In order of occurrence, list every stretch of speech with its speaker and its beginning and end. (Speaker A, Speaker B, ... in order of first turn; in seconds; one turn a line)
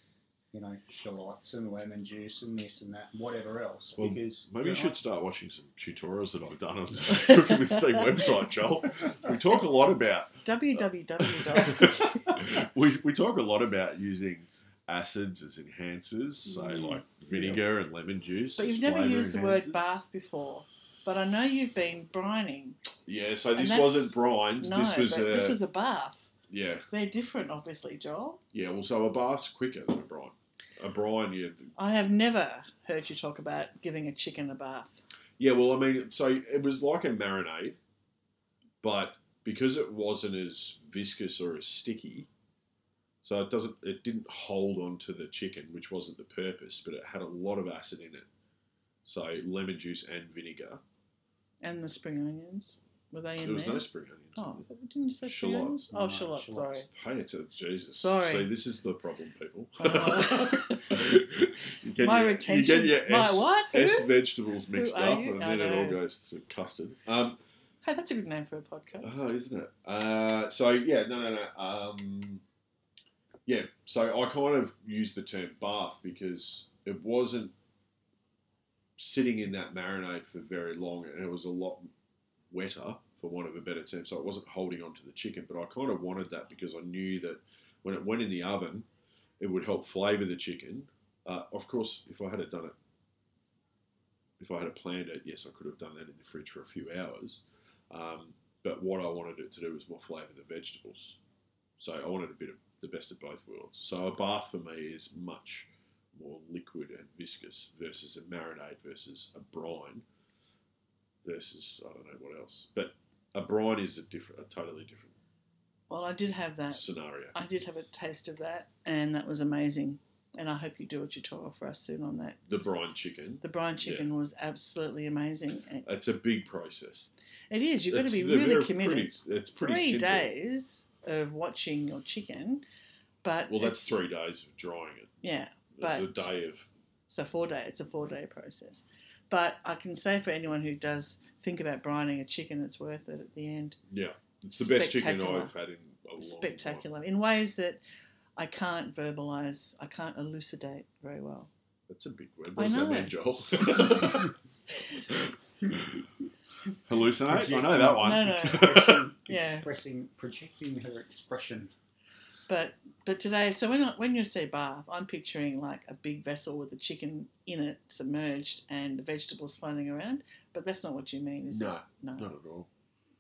Speaker A: 0.5-5.0
Speaker B: 4.0-20.0
Speaker C: 10.4-12.5
Speaker C: 16.5-17.6
Speaker C: 18.6-22.8
Speaker B: 23.1-25.6
Speaker C: 23.5-26.3
Speaker B: 26.5-26.9
Speaker C: 26.9-28.4
Speaker B: 28.5-31.7
Speaker C: 31.8-35.0
Speaker B: 35.4-37.8
Speaker B: 38.8-42.3
Speaker B: 43.2-48.3
Speaker B: 49.1-50.8
Speaker C: 51.6-56.9
Speaker B: 53.4-54.7
Speaker B: 55.2-55.9
Speaker A: 55.9-56.9
Speaker B: 56.9-67.4
Speaker C: 57.9-58.5
Speaker C: 59.8-61.0
Speaker C: 62.0-66.0
Speaker C: 67.8-69.2
Speaker B: 69.0-72.4
Speaker B: 73.5-77.5
Speaker B: 79.0-81.9
Speaker B: 82.5-88.9
Speaker B: 89.4-92.8
Speaker B: 94.4-101.2
Speaker B: 101.8-110.0
Speaker B: 111.2-115.2
Speaker C: 115.9-122.4
Speaker B: 116.7-117.4
Speaker B: 122.5-124.1
Speaker C: 123.4-125.9
Speaker B: 125.8-127.1
Speaker C: 127.5-132.6
Speaker B: 127.9-130.3
Speaker C: 133.2-134.0
Speaker B: 133.5-135.1
Speaker C: 135.2-136.3
Speaker B: 135.8-136.7
Speaker C: 137.1-143.8
Speaker B: 143.9-146.8
Speaker C: 144.5-145.5
Speaker C: 146.2-147.8
Speaker C: 148.4-151.5
Speaker B: 151.9-154.3
Speaker C: 152.6-153.2
Speaker C: 153.8-154.1
Speaker B: 154.9-156.1
Speaker B: 156.9-159.1
Speaker A: 157.3-161.7
Speaker C: 158.0-158.7
Speaker C: 159.3-159.7
Speaker C: 162.5-172.3
Speaker B: 171.5-172.7